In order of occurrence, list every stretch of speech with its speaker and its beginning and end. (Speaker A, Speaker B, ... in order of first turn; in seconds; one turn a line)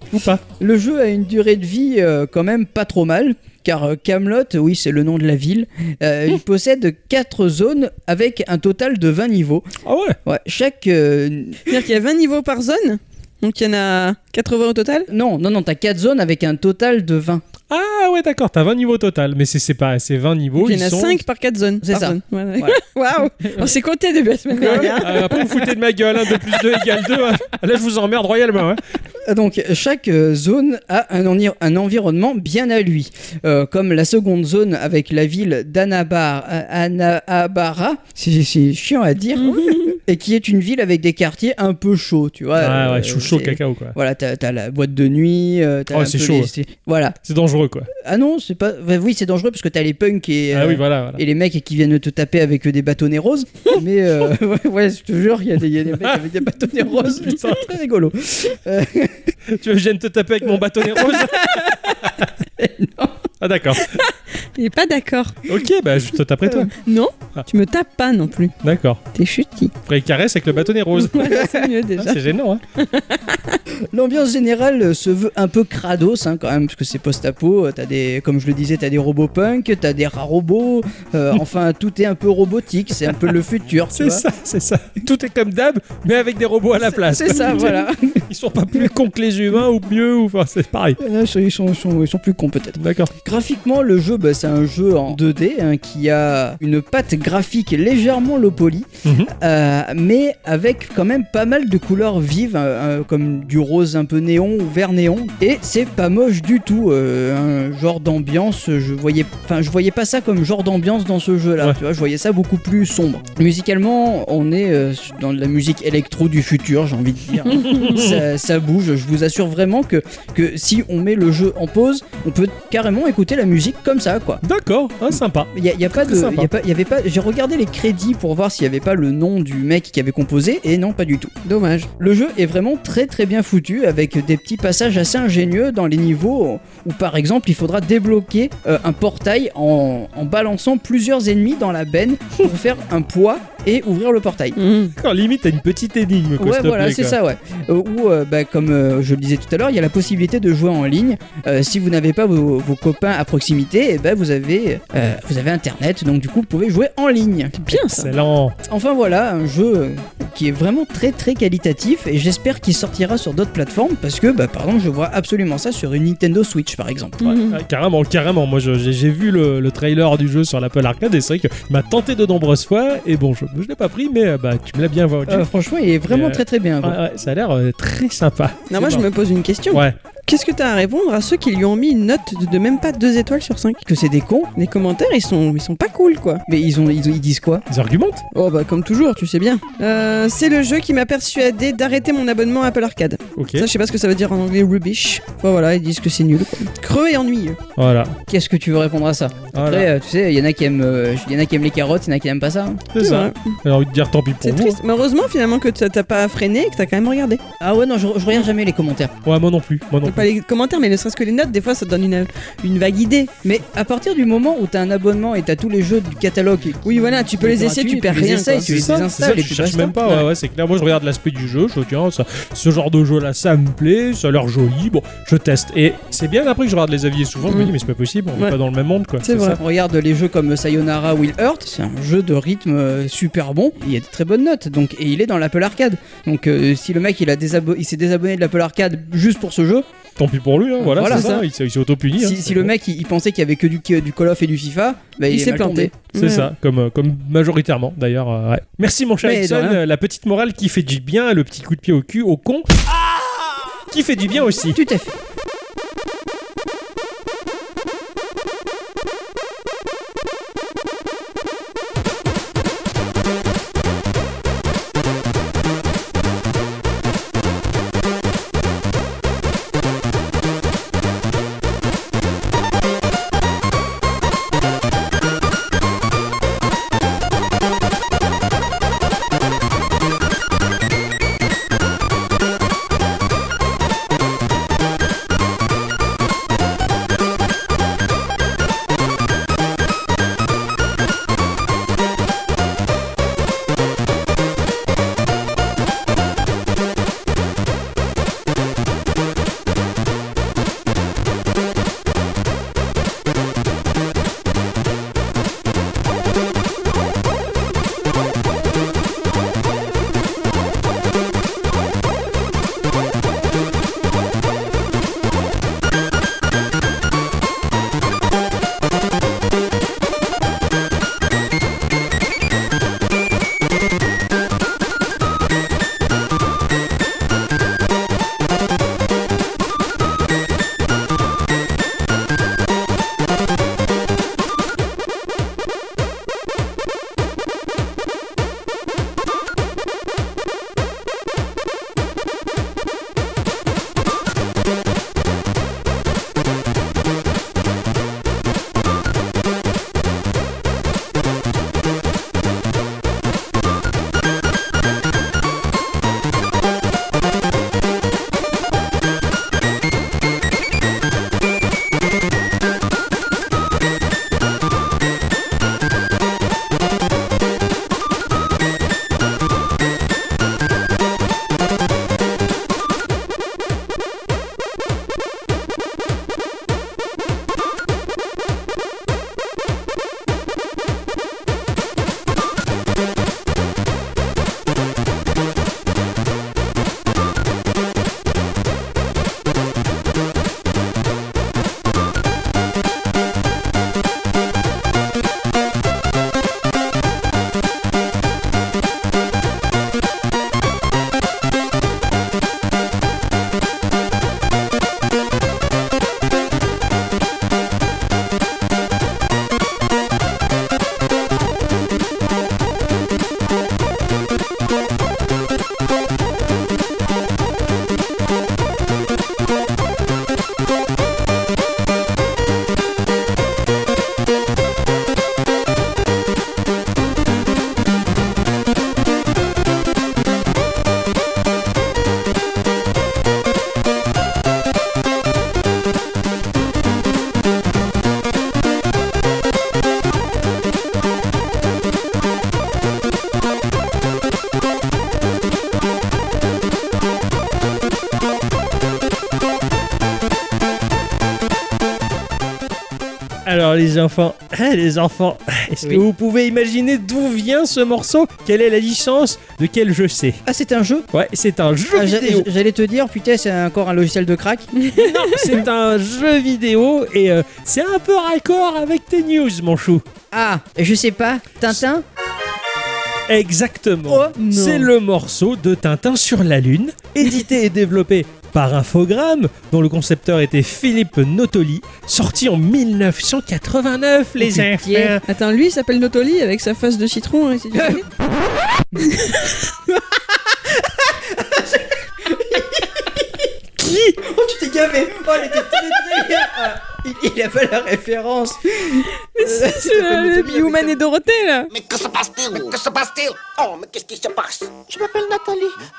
Speaker A: 0.1-0.4
Speaker B: 0.6-9.7
Speaker A: 9.8-10.2
Speaker B: 10.2-11.7
Speaker C: 11.7-15.1
Speaker B: 15.1-17.4
Speaker A: 17.7-21.2
Speaker C: 20.6-25.7
Speaker B: 21.8-22.8
Speaker A: 24.6-28.8
Speaker B: 24.6-25.2
Speaker B: 29.2-47.2
Speaker C: 39.4-40.0
Speaker A: 42.6-44.0
Speaker A: 45.9-46.5
Speaker A: 47.2-47.9
Speaker B: 47.9-59.4
Speaker A: 50.5-51.2
Speaker A: 57.1-57.7
Speaker A: 59.5-62.3
Speaker B: 61.0-63.3
Speaker A: 63.4-64.0
Speaker C: 63.8-65.5
Speaker A: 65.5-66.7
Speaker C: 66.7-68.5
Speaker A: 68.6-69.0
Speaker C: 69.1-69.7
Speaker A: 69.9-71.4
Speaker C: 71.0-72.2
Speaker A: 72.0-72.6
Speaker C: 72.8-73.6
Speaker B: 73.8-84.2
Speaker A: 83.9-91.0
Speaker B: 86.8-88.2
Speaker B: 91.0-124.4
Speaker A: 92.8-93.1
Speaker A: 99.0-99.3
Speaker A: 117.6-118.2
Speaker A: 124.4-126.5
Speaker B: 125.5-131.3
Speaker C: 131.4-131.9
Speaker B: 132.0-144.6
Speaker C: 144.6-144.9
Speaker A: 145.0-147.2
Speaker B: 146.4-157.6
Speaker C: 157.6-158.1
Speaker A: 157.7-158.6
Speaker B: 158.7-167.4
Speaker C: 167.2-167.6
Speaker A: 167.3-175.5
Speaker B: 175.3-177.0
Speaker A: 176.1-179.1
Speaker C: 178.7-183.8
Speaker A: 179.7-179.9
Speaker B: 183.9-184.5
Speaker C: 184.6-186.4
Speaker B: 186.5-187.6
Speaker A: 187.7-188.2
Speaker C: 188.3-197.6
Speaker A: 193.4-193.7
Speaker A: 197.8-198.2
Speaker B: 198.3-202.9
Speaker A: 199.5-199.9
Speaker A: 202.9-204.8
Speaker C: 203.0-203.6
Speaker C: 204.4-207.4
Speaker B: 207.6-209.1
Speaker A: 209.2-210.3
Speaker C: 210.1-213.3
Speaker B: 213.4-220.0
Speaker C: 216.8-218.7
Speaker A: 218.7-229.6
Speaker C: 227.5-227.7
Speaker C: 229.2-229.6
Speaker B: 229.6-239.9
Speaker A: 240.2-242.7
Speaker B: 240.8-241.4
Speaker C: 241.1-241.4
Speaker B: 242.2-245.9
Speaker C: 245.3-246.5
Speaker A: 246.1-254.8
Speaker B: 249.2-249.8
Speaker B: 254.7-255.2
Speaker A: 453.4-460.4
Speaker B: 460.4-461.1
Speaker A: 461.1-462.5
Speaker B: 461.9-464.9
Speaker C: 464.9-465.2
Speaker A: 464.9-470.0
Speaker B: 470.3-472.1
Speaker A: 473.3-485.2
Speaker B: 474.1-474.4
Speaker C: 474.4-474.9
Speaker B: 484.4-485.2
Speaker C: 485.3-488.1
Speaker B: 487.7-488.0
Speaker B: 488.9-489.2
Speaker C: 489.1-489.5
Speaker B: 489.9-493.5
Speaker A: 493.8-494.1
Speaker B: 494.2-501.0
Speaker C: 499.3-501.7
Speaker D: 501.7-504.9